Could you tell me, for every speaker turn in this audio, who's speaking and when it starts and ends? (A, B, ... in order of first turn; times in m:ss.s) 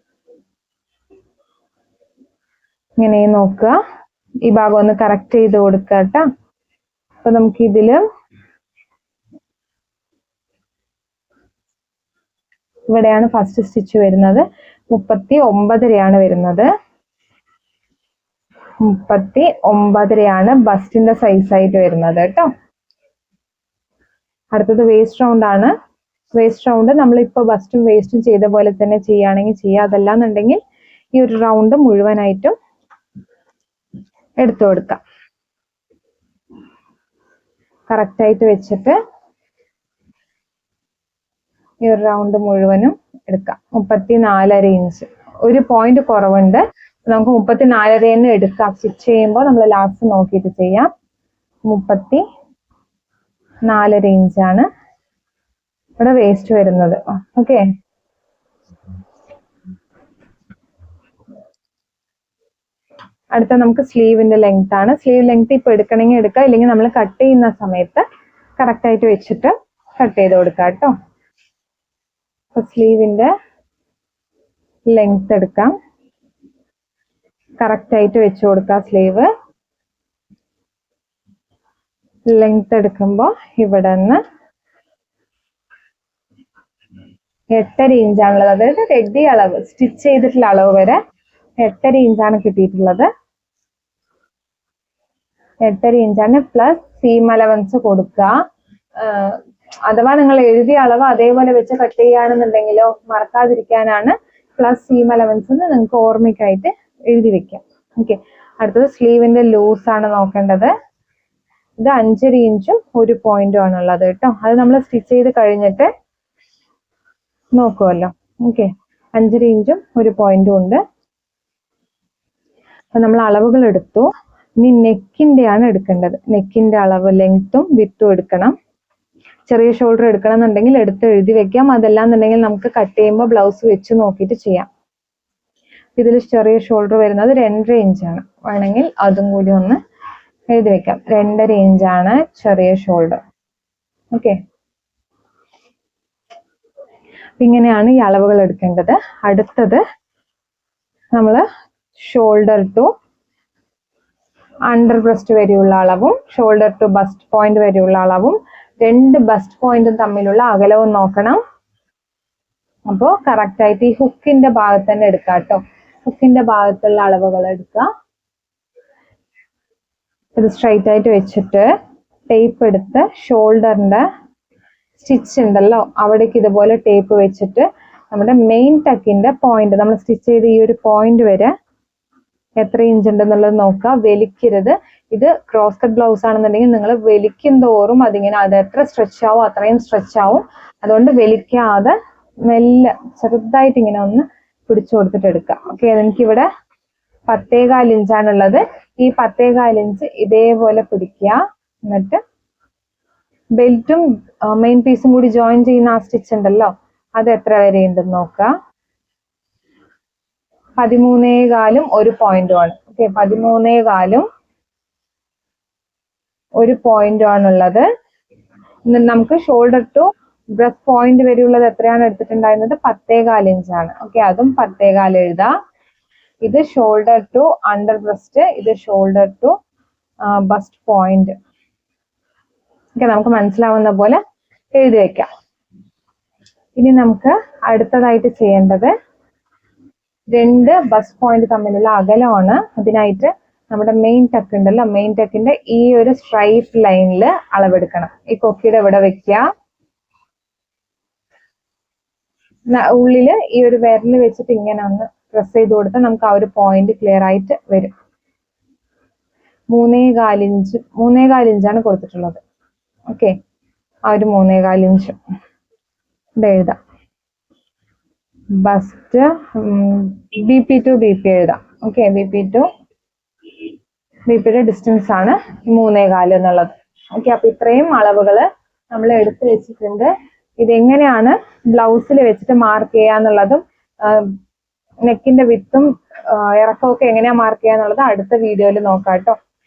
0:03.0-0:03.7 A
0:04.4-0:06.2 A
0:07.2-0:08.0 A
0:12.9-0:16.7 A
0:18.8-0:22.5 A
0:24.5-0:25.7 A
0:26.4-0:30.6 A
0:31.2-0:32.6 A
0:34.4-0:35.0 A
0:37.9-0:39.0 A
0:41.8-0:50.9 A
0:51.7-0:52.2 A
0:53.7-0:54.7 A
0:56.0-0:57.6 A
1:03.4-1:08.0 A
1:08.6-1:10.9 A
1:12.6-1:13.3 A
1:14.9-1:15.7 A
1:17.6-1:19.3 A
1:22.3-1:24.2 A
1:27.5-1:31.0 A
1:31.6-1:33.1 A
1:35.7-1:38.3 A
1:39.0-1:50.7 A
1:51.8-1:55.9 A
1:57.6-2:00.8 A
2:03.0-2:04.1 A
2:04.6-2:08.5 A
2:09.5-2:14.7 A
2:16.0-2:19.8 A
2:20.5-2:23.2 A
2:27.4-2:29.8 A
2:31.2-2:31.4 A
2:32.0-2:32.9 A
2:34.7-2:41.4 A
2:42.9-2:47.9 A
2:50.4-2:51.7 A
2:52.3-2:54.0 A
2:55.0-3:01.5 A
3:02.6-3:12.0 A
3:12.5-3:16.5 A
3:17.3-3:22.2 A
3:23.6-3:28.5 A
3:30.8-3:34.3 A
3:36.6-3:37.9 A
3:38.9-3:45.5 A
3:46.4-3:49.6 A
3:50.3-3:51.3 A
3:53.0-3:54.2 A
3:54.8-3:55.3 A
3:56.8-3:58.9 A
4:00.3-4:09.4 A
4:12.7-4:17.9 A
4:19.7-4:22.4 A
4:24.1-4:25.2 A
4:26.4-4:26.8 A
4:28.6-4:32.7 A
4:34.3-4:40.1 A
4:40.6-4:44.3 A
4:45.1-4:49.4 A